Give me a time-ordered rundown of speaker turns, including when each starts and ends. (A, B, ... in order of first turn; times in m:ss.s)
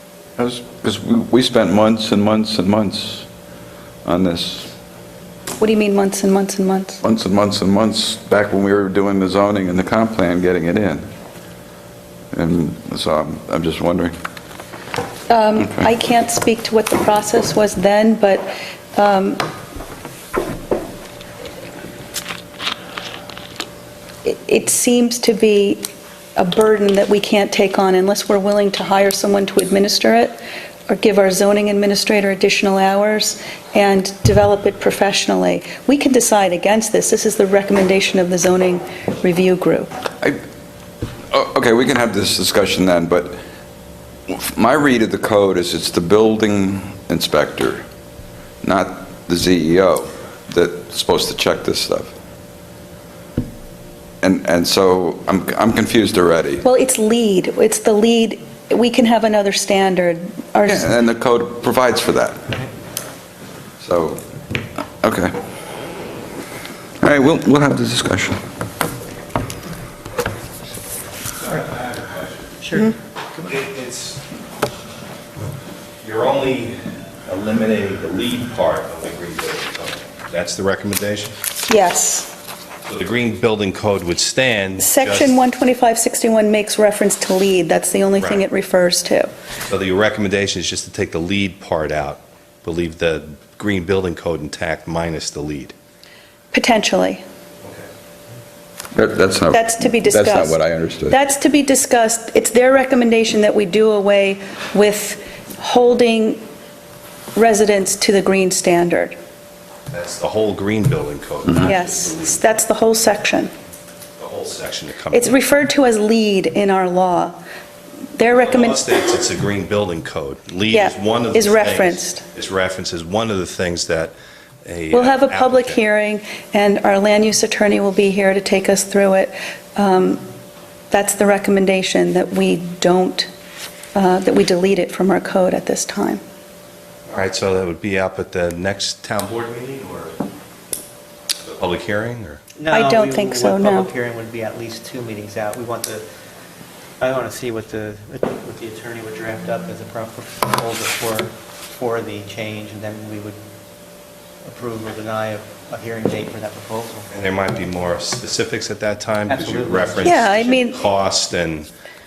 0:00.4-0:03.3 A
0:04.0-0:04.7 A
0:05.6-0:07.0 B
0:07.0-0:11.1 A
0:12.3-0:14.2 A
0:15.3-0:19.5 B
0:24.2-0:30.4 B
0:30.9-0:39.9 B
0:41.3-0:43.4 A
0:44.3-0:47.8 A
0:48.6-0:52.1 A
0:54.2-0:56.6 A
0:56.6-1:01.0 B
1:00.7-1:02.4 A
1:03.8-1:04.2 A
1:05.0-1:05.4 A
1:07.0-1:08.4 A
1:11.4-1:12.6 C
1:12.6-1:13.5 D
1:13.4-1:14.2 C
1:16.0-1:16.8 C
1:17.3-1:21.4 C
1:21.7-1:22.3 B
1:22.9-1:25.3 C
1:24.8-1:29.3 B
1:28.2-1:28.4 C
1:29.7-1:35.7 C
1:36.5-1:37.2 B
1:38.9-1:41.2 A
1:39.5-1:46.4 B
1:47.4-1:49.2 B
1:49.9-1:52.4 C
1:51.6-1:53.5 B
1:54.2-1:55.4 C
1:55.1-1:57.4 B
1:58.2-1:58.8 B
1:58.3-2:04.1 C
2:00.7-2:02.2 B
2:04.6-2:05.8 C
2:04.9-2:10.2 B
2:10.9-2:13.3 B
2:13.9-2:16.2 B
2:17.1-2:20.2 C
2:21.4-2:22.4 C
2:22.6-2:26.0 D
2:22.7-2:23.9 B
2:27.0-2:33.4 D
2:34.4-2:37.1 D
2:37.1-2:41.7 C
2:39.3-2:40.5 D
2:40.0-2:40.8 B